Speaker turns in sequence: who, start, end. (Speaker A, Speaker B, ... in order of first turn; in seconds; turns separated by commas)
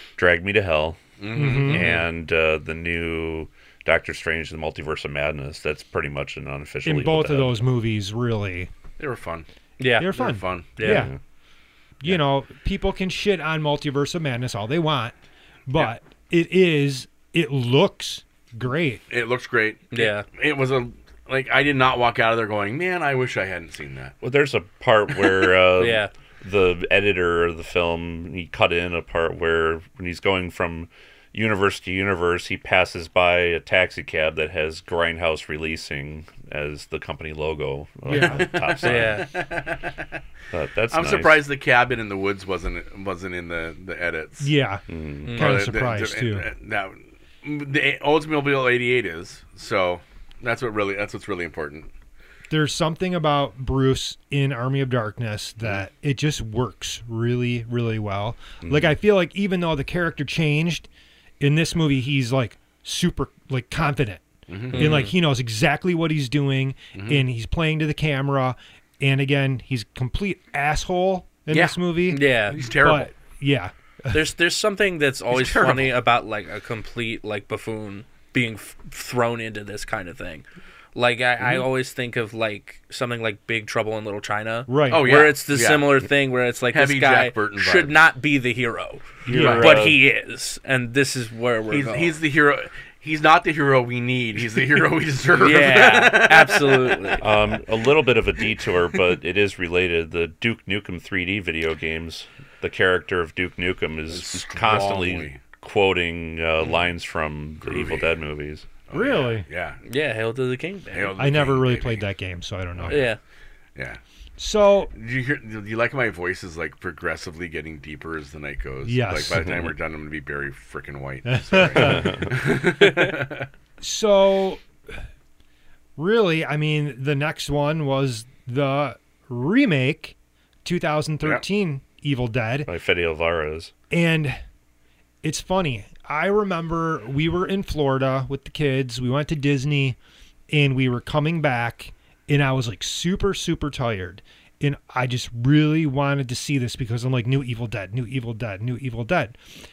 Speaker A: 0.2-7.6, Speaker B: 1.2-2.0, Speaker C: 1.3-1.9, Speaker C: 6.8-8.7, Speaker B: 9.0-9.5, Speaker D: 9.8-10.1, Speaker C: 10.0-11.1, Speaker B: 10.1-10.7, Speaker D: 10.8-11.1, Speaker A: 10.8-11.2, Speaker C: 12.0-15.1, Speaker C: 15.7-19.0, Speaker B: 19.1-24.1, Speaker D: 19.9-20.2, Speaker A: 24.2-39.3, Speaker D: 25.8-26.1, Speaker C: 38.0-38.6, Speaker B: 38.2-40.0, Speaker D: 38.8-39.3, Speaker A: 40.5-41.4, Speaker B: 40.9-44.5, Speaker C: 44.4-46.5, Speaker A: 44.9-45.4, Speaker D: 45.2-45.6, Speaker B: 45.4-51.9, Speaker C: 52.5-60.9, Speaker A: 58.6-59.0, Speaker C: 61.4-74.2, Speaker B: 64.5-65.0, Speaker D: 64.7-65.1, Speaker B: 66.9-67.2, Speaker B: 71.5-71.8, Speaker D: 72.1-72.6, Speaker B: 72.4-73.1, Speaker D: 74.1-92.1, Speaker B: 75.3-75.9, Speaker C: 84.7-85.2, Speaker B: 84.9-86.0, Speaker B: 86.7-88.0, Speaker A: 89.2-90.0, Speaker C: 89.3-89.7, Speaker B: 89.3-89.8, Speaker B: 91.7-97.3, Speaker D: 95.4-97.2, Speaker A: 97.2-108.7, Speaker B: 104.1-105.4, Speaker B: 107.6-108.1, Speaker B: 108.9-109.8, Speaker C: 108.9-109.5, Speaker D: 109.8-111.1, Speaker B: 110.9-112.0, Speaker C: 111.2-113.0, Speaker D: 112.9-113.2, Speaker B: 113.7-114.0, Speaker C: 114.4-114.9, Speaker B: 114.9-123.5, Speaker C: 118.8-119.6, Speaker C: 121.3-122.2, Speaker A: 121.8-122.2, Speaker D: 122.8-123.1, Speaker C: 123.8-125.0, Speaker C: 126.0-132.7, Speaker A: 132.7-133.7, Speaker C: 133.9-134.4, Speaker C: 135.2-140.0, Speaker C: 140.5-149.4